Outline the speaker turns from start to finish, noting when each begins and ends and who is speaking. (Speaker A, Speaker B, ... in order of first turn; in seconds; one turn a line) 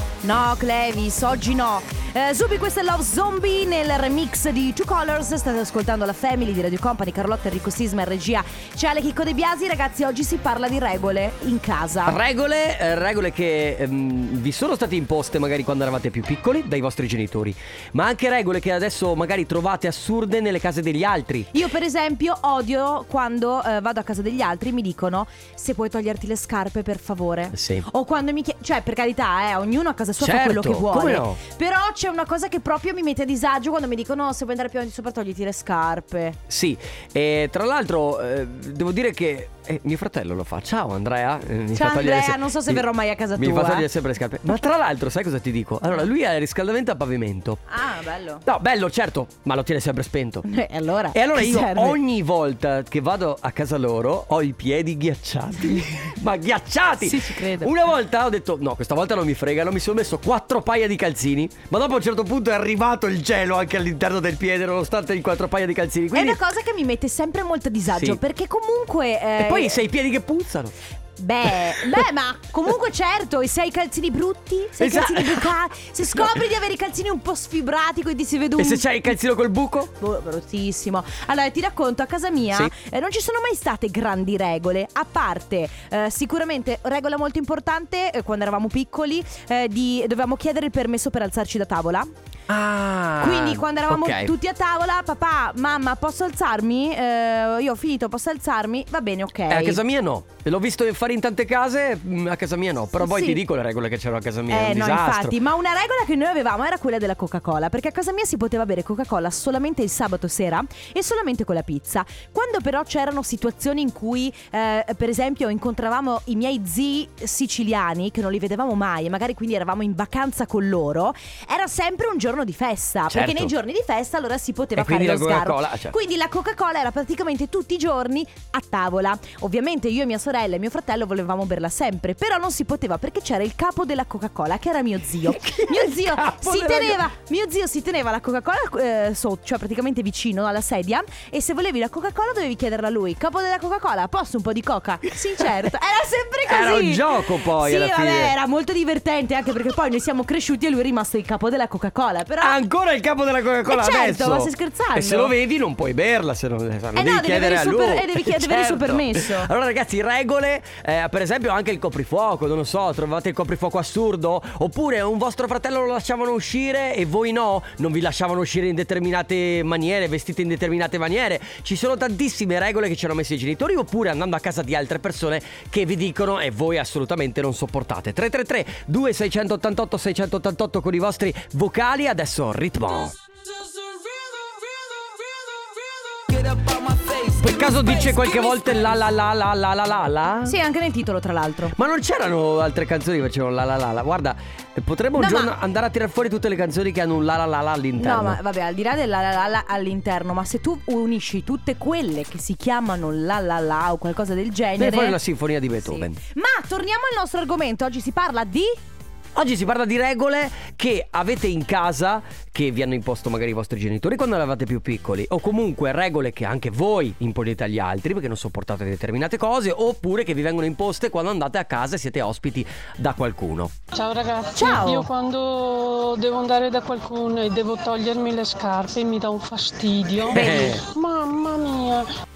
Speaker A: 0.2-12.2
Speaker B: 12.1-21.5
Speaker A: 21.5-36.4
Speaker B: 27.5-27.9
Speaker B: 30.2-31.4
Speaker B: 36.5-42.9
Speaker A: 41.8-43.9
Speaker B: 43.4-47.6
Speaker A: 47.7-48.4
Speaker B: 48.5-50.5
Speaker A: 50.5-52.0
Speaker B: 51.1-66.4
Speaker A: 57.0-57.7
Speaker A: 66.1-69.8
Speaker B: 67.9-68.2
Speaker B: 69.4-70.8
Speaker A: 71.2-78.8
Speaker B: 74.8-75.5
Speaker B: 76.1-76.4
Speaker B: 78.6-79.9
Speaker A: 80.0-92.1
Speaker B: 92.5-94.3
Speaker A: 93.2-99.8
Speaker B: 99.5-105.3
Speaker A: 103.0-103.4
Speaker A: 104.5-152.6
Speaker B: 123.1-123.5
Speaker B: 124.8-126.0
Speaker B: 135.3-137.0
Speaker B: 146.5-148.3
Speaker B: 152.4-183.2
Speaker A: 153.7-155.3
Speaker A: 156.9-159.5
Speaker B: 187.4-190.6
Speaker A: 187.9-188.3
Speaker A: 190.5-191.8
Speaker B: 191.8-198.4
Speaker A: 195.2-195.5
Speaker A: 198.0-205.2
Speaker B: 204.8-206.2
Speaker A: 205.8-208.8
Speaker B: 209.3-223.7
Speaker C: 223.9-232.1
Speaker A: 224.6-225.1
Speaker B: 230.3-230.8
Speaker A: 230.4-230.7